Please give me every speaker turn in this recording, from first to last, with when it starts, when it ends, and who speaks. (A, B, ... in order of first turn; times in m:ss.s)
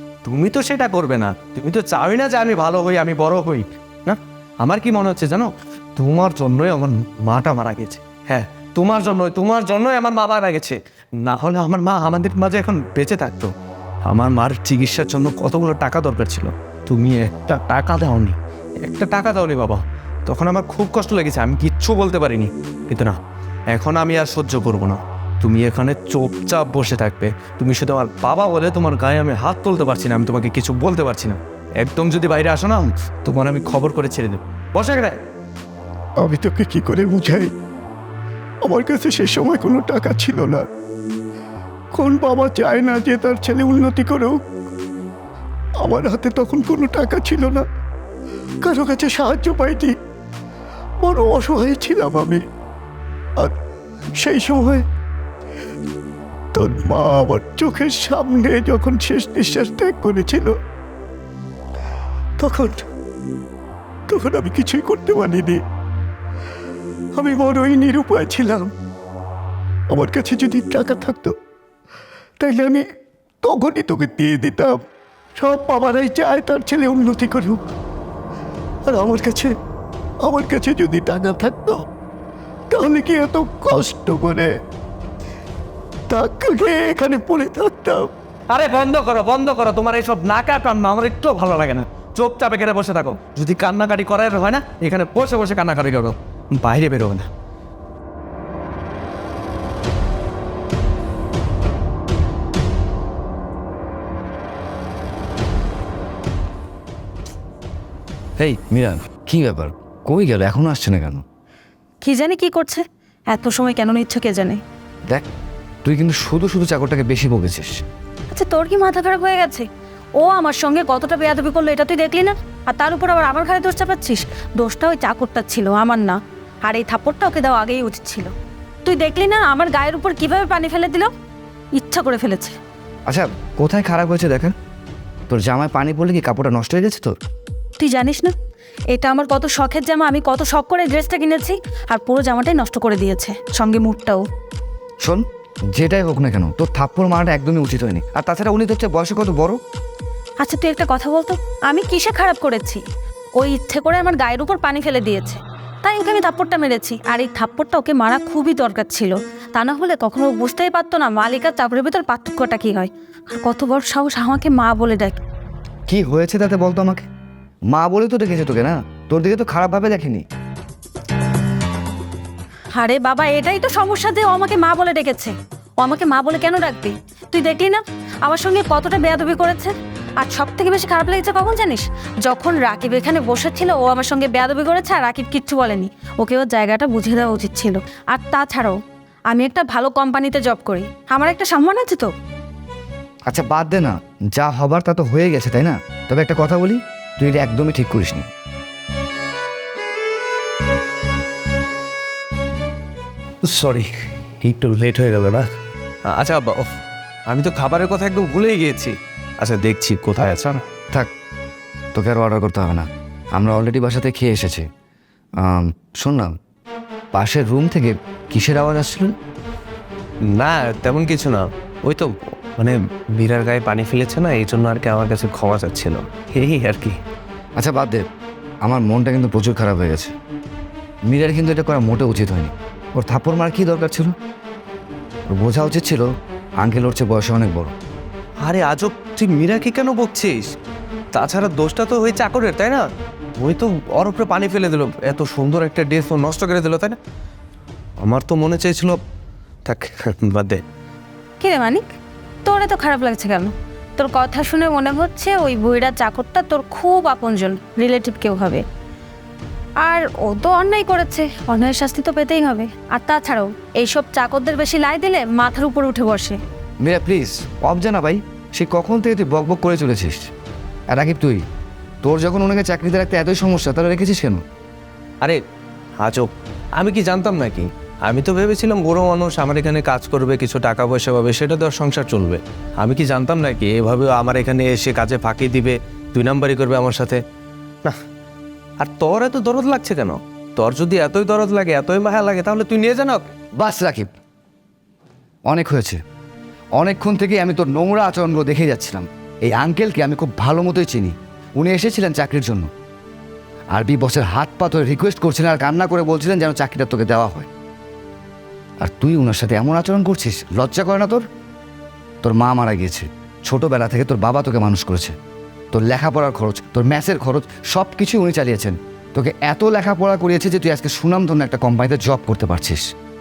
0:00.2-0:13.5 A
0:14.1-0:23.2 A
0:23.7-0:35.2 A
0:36.2-0:37.5 B
0:38.6-0:40.7 B
0:41.9-0:44.4 B
0:45.8-0:47.6 B
0:48.6-0:50.0 B
0:51.0-0:52.4 B
0:54.2-0:54.8 B
0:56.5-1:00.6 B
1:02.4-1:02.8 B
1:04.1-1:05.6 B
1:07.2-1:08.7 B
1:09.9-1:11.4 B
1:12.4-1:12.9 B
1:13.4-1:14.8 B
1:15.4-1:17.6 B
1:18.9-1:19.6 B
1:20.2-1:21.8 B
1:22.7-1:24.5 B
1:26.1-1:28.1 B
1:28.5-1:37.3 A
1:48.4-1:51.2 C
1:52.0-1:54.6 D
1:55.8-1:57.7 C
1:58.3-1:59.7 D
2:00.2-2:08.3 D
2:08.8-2:11.1 D
2:11.7-2:12.6 D
2:13.1-2:14.5 C
2:15.3-2:17.2 C
2:17.8-2:18.3 D
2:18.9-2:24.2 D
2:25.8-2:29.6 C
2:30.4-2:32.8 D
2:33.4-2:45.2 D
2:45.9-2:47.1 C
2:47.7-2:50.2 C
2:52.8-3:08.8 D
3:09.3-3:12.1 D
3:13.3-3:18.3 C
3:23.4-3:25.5 A
3:26.1-3:26.7 A
3:27.3-3:30.6 A
3:32.0-3:34.6 C
3:35.4-3:36.3 C
3:37.1-3:39.1 C
3:40.3-3:47.0 A
3:47.6-3:48.0 C
3:48.6-3:50.1 C
3:51.1-3:54.1 C
3:55.3-3:56.1 C
3:56.6-3:57.7 C
3:58.4-4:00.5 A
4:01.1-4:02.9 A
4:03.4-4:07.0 A
4:08.0-4:09.0 A
4:09.7-4:10.6 A
4:11.4-4:11.9 D
4:12.4-4:18.6 D
4:19.8-4:26.4 D
4:26.8-4:30.3 C
4:30.9-4:31.4 C
4:32.0-4:34.4 C
4:36.0-4:47.2 A
4:48.8-4:53.3 A
4:53.6-4:54.1 C
4:55.5-4:56.0 C
4:56.8-5:02.7 C
5:03.7-5:07.5 C
5:08.8-5:11.2 C
5:12.2-5:15.1 C
5:15.7-5:22.8 C